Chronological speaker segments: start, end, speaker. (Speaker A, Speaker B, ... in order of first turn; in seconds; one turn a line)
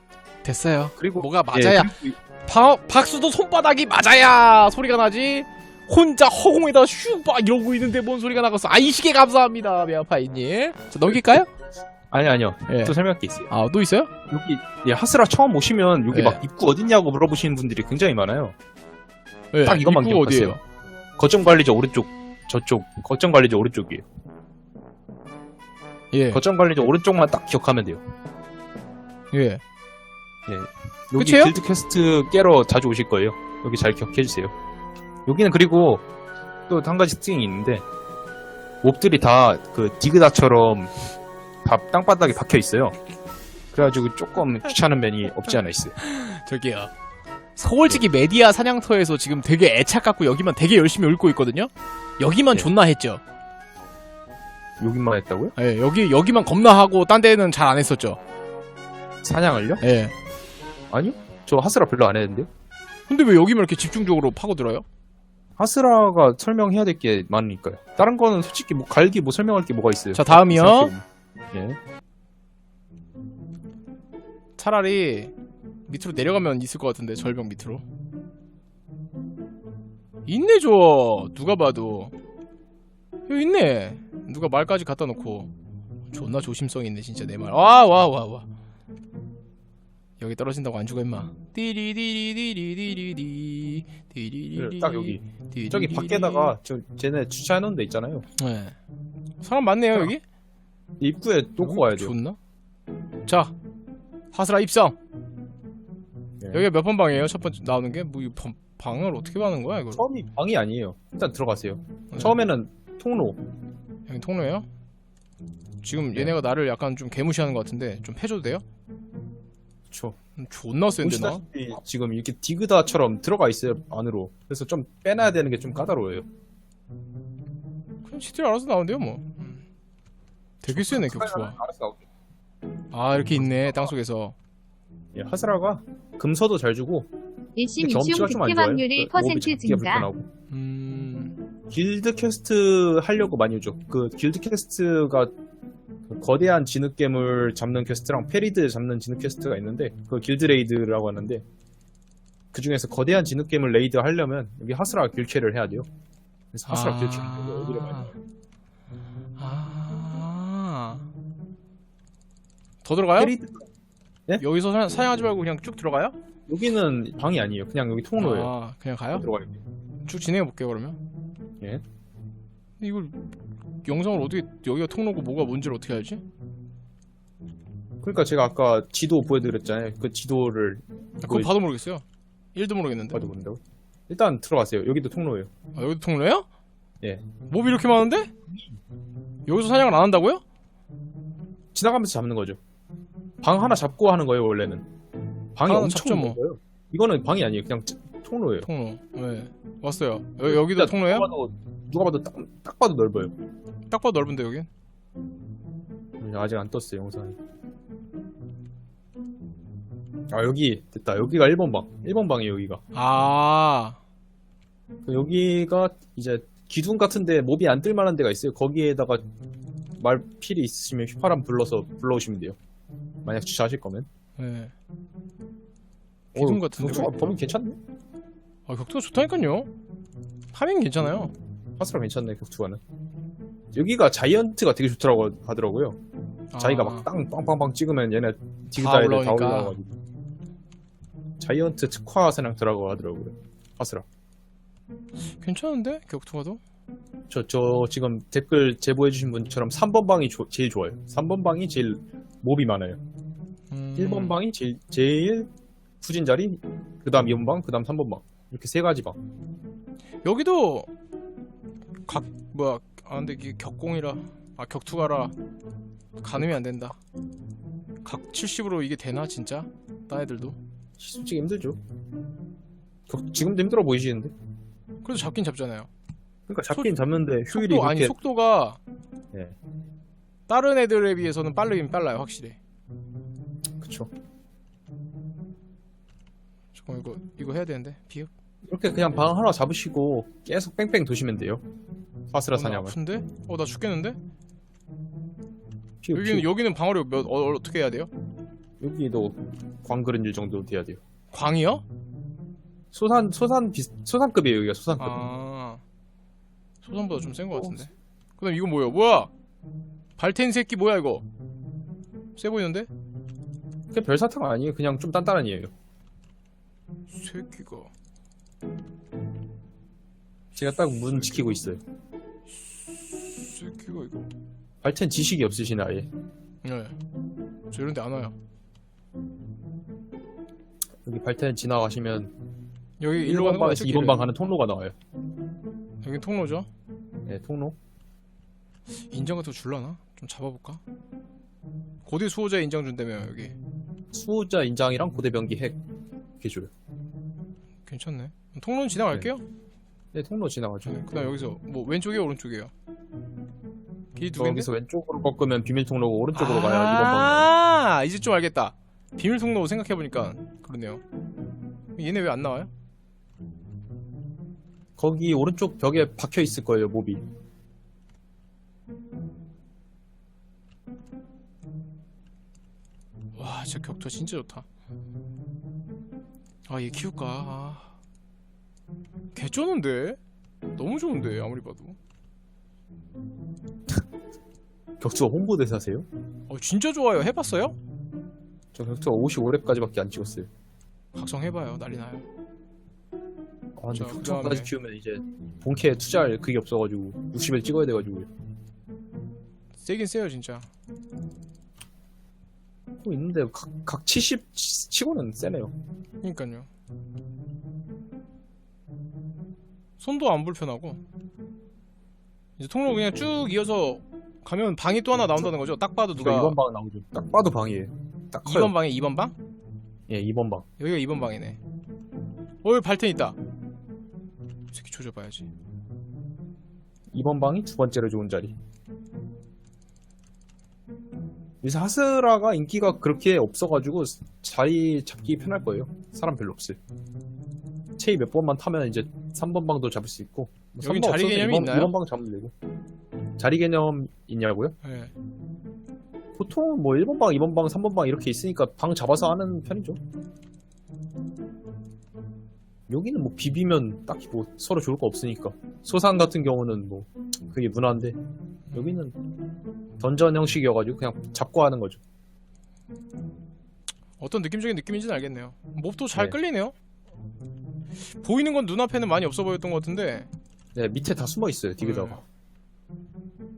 Speaker A: 0.4-11.5
Speaker B: 1.0-2.2
Speaker B: 12.1-13.5
Speaker A: 12.7-13.0
Speaker A: 13.5-14.1
Speaker B: 14.3-18.5
Speaker A: 16.1-16.4
Speaker A: 19.5-20.6
Speaker B: 19.6-20.6
Speaker B: 21.2-24.0
Speaker A: 26.1-26.4
Speaker B: 26.3-28.0
Speaker A: 29.3-29.6
Speaker B: 30.5-34.5
Speaker A: 31.1-31.5
Speaker B: 35.2-36.0
Speaker B: 36.7-37.8
Speaker B: 38.8-40.9
Speaker B: 41.6-43.0
Speaker B: 43.7-46.0
Speaker A: 46.0-46.9
Speaker A: 47.6-53.2
Speaker B: 54.8-55.5
Speaker A: 55.5-58.2
Speaker B: 59.2-59.8
Speaker A: 59.8-60.1
Speaker B: 60.9-62.5
Speaker A: 63.1-64.8
Speaker B: 65.6-71.8
Speaker A: 70.1-70.9
Speaker A: 74.6-75.3
Speaker A: 75.9-77.8
Speaker A: 80.2-82.1
Speaker A: 83.3-85.5
Speaker A: 86.1-88.5
Speaker A: 90.2-96.5
Speaker B: 94.5-98.2
Speaker A: 98.4-98.7
Speaker A: 99.4-100.2
Speaker B: 101.0-102.1
Speaker A: 101.6-102.4
Speaker A: 103.2-103.5
Speaker A: 104.3-105.0
Speaker B: 106.4-106.7
Speaker A: 106.5-110.0
Speaker B: 109.9-113.4
Speaker A: 112.1-112.4
Speaker A: 114.1-114.7
Speaker A: 115.8-118.6
Speaker B: 119.9-120.2
Speaker A: 120.4-121.4
Speaker B: 121.0-126.2
Speaker A: 128.0-129.6
Speaker A: 130.6-131.6
Speaker B: 130.7-132.0
Speaker A: 132.9-134.3
Speaker B: 135.1-137.1
Speaker C: 137.6-140.1
Speaker B: 137.8-140.2
Speaker A: 140.5-141.3
Speaker B: 141.7-145.3
Speaker B: 146.1-151.4
Speaker B: 152.5-155.9
Speaker B: 156.5-158.1
Speaker A: 156.7-158.1
Speaker A: 159.4-161.1
Speaker A: 162.8-163.3
Speaker B: 163.2-163.6
Speaker A: 164.4-166.2
Speaker B: 166.5-168.5
Speaker A: 168.2-169.3
Speaker B: 169.1-169.6
Speaker A: 170.1-171.0
Speaker A: 172.8-173.2
Speaker A: 173.8-176.2
Speaker B: 178.0-181.5
Speaker A: 181.2-182.0
Speaker A: 182.5-183.2
Speaker B: 183.1-185.5
Speaker A: 185.7-186.4
Speaker A: 187.5-188.3
Speaker A: 189.5-190.4
Speaker B: 191.7-192.6
Speaker B: 193.4-194.8
Speaker B: 195.6-198.7
Speaker A: 195.7-196.4
Speaker A: 198.6-201.3
Speaker B: 200.4-203.3
Speaker A: 203.9-204.7
Speaker B: 206.2-207.4
Speaker B: 210.3-212.8
Speaker A: 212.9-214.0
Speaker B: 215.0-219.2
Speaker B: 220.0-222.6
Speaker B: 223.2-224.1
Speaker A: 224.4-224.7
Speaker A: 226.3-227.4
Speaker B: 226.3-227.8
Speaker A: 228.7-229.7
Speaker A: 230.5-231.3
Speaker B: 231.8-232.8
Speaker B: 233.7-236.0
Speaker A: 236.5-237.1
Speaker B: 236.6-240.0
Speaker A: 238.7-239.8
Speaker B: 241.4-244.1
Speaker A: 245.3-246.6
Speaker B: 247.3-253.0
Speaker A: 253.7-254.4
Speaker B: 253.9-255.5
Speaker B: 256.0-259.2
Speaker A: 260.2-260.9
Speaker A: 262.1-265.3
Speaker A: 266.2-267.0
Speaker A: 268.0-270.6
Speaker B: 271.0-271.8
Speaker B: 273.1-274.3
Speaker A: 275.0-275.9
Speaker B: 276.5-278.1
Speaker A: 276.7-276.9
Speaker A: 277.5-278.8
Speaker A: 280.5-282.6
Speaker B: 283.8-284.1
Speaker A: 286.7-288.3
Speaker B: 288.6-291.6
Speaker B: 292.3-292.9
Speaker A: 292.5-294.2
Speaker B: 296.0-296.5
Speaker A: 296.1-298.1
Speaker B: 298.8-301.0
Speaker A: 301.3-301.8
Speaker B: 302.9-305.2
Speaker A: 305.0-305.8
Speaker A: 306.8-309.3
Speaker A: 310.2-311.2
Speaker A: 312.4-312.9
Speaker B: 313.9-315.7
Speaker A: 317.1-317.9
Speaker B: 320.6-321.8
Speaker A: 321.1-321.6
Speaker A: 322.6-324.3
Speaker B: 324.8-326.1
Speaker A: 326.6-326.9
Speaker A: 327.7-328.3
Speaker B: 331.0-332.3
Speaker A: 333.0-334.3
Speaker B: 333.2-334.9
Speaker A: 336.0-336.7
Speaker B: 337.3-337.8
Speaker A: 339.1-340.8
Speaker A: 342.1-343.6
Speaker B: 344.1-345.8
Speaker B: 346.4-346.7
Speaker A: 347.9-349.4
Speaker B: 350.1-351.0
Speaker A: 350.8-352.7
Speaker A: 354.1-354.7
Speaker B: 354.4-357.5
Speaker A: 356.3-361.0
Speaker A: 361.9-362.7
Speaker B: 365.0-367.2
Speaker A: 373.4-374.6
Speaker A: 376.7-377.9
Speaker A: 379.3-380.2
Speaker A: 380.8-382.0
Speaker B: 385.0-386.1
Speaker A: 386.5-387.8
Speaker B: 388.7-390.5
Speaker A: 391.1-392.2
Speaker B: 393.8-398.3
Speaker A: 393.9-394.7
Speaker A: 399.8-400.7
Speaker B: 403.0-405.7
Speaker A: 406.2-406.7
Speaker A: 410.0-411.0
Speaker A: 412.6-416.6
Speaker B: 416.1-418.7
Speaker A: 418.4-419.3
Speaker B: 420.1-420.6
Speaker A: 420.8-421.6
Speaker A: 422.6-423.4
Speaker A: 424.7-425.5
Speaker B: 427.1-428.5
Speaker B: 431.6-436.8
Speaker B: 438.0-442.5
Speaker A: 440.8-441.9
Speaker B: 443.4-444.8
Speaker A: 444.8-445.1
Speaker B: 446.4-450.0
Speaker B: 452.9-458.2
Speaker B: 458.7-459.2
Speaker B: 460.0-462.0
Speaker A: 464.2-466.7
Speaker A: 468.1-470.3
Speaker B: 470.7-472.2
Speaker A: 471.8-472.2